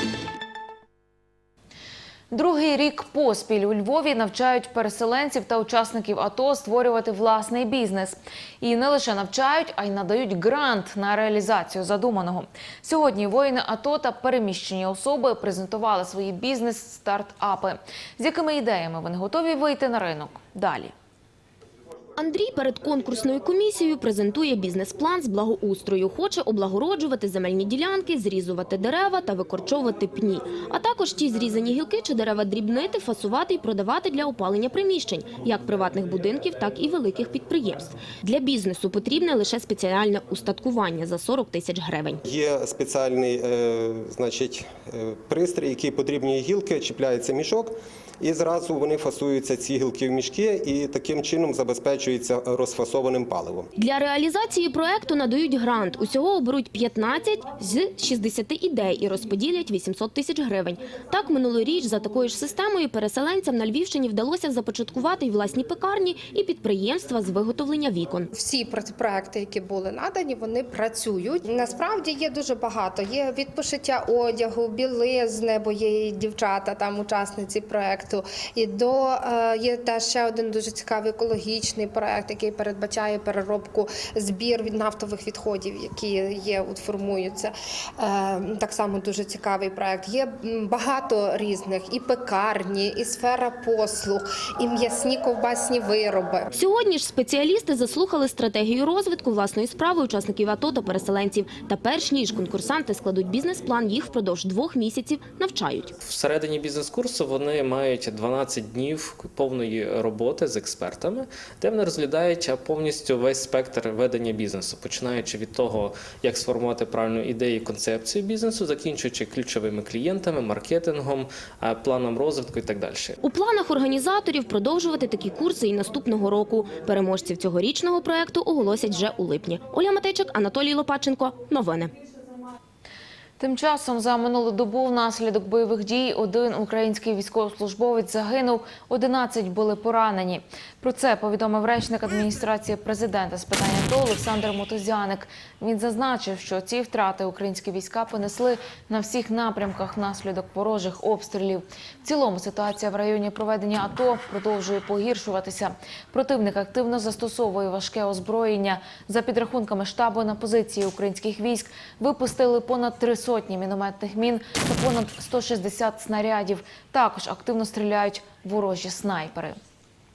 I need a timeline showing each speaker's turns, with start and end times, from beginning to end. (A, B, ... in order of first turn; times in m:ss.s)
0:02.3-0:20.9 A
0:22.2-0:42.2 B
0:42.3-0:53.7 C
0:53.8-1:08.3 B
1:08.4-1:36.5 D
1:36.6-1:45.9 B
1:46.0-2:03.2 E
2:03.2-2:11.9 B
2:13.4-2:49.6 A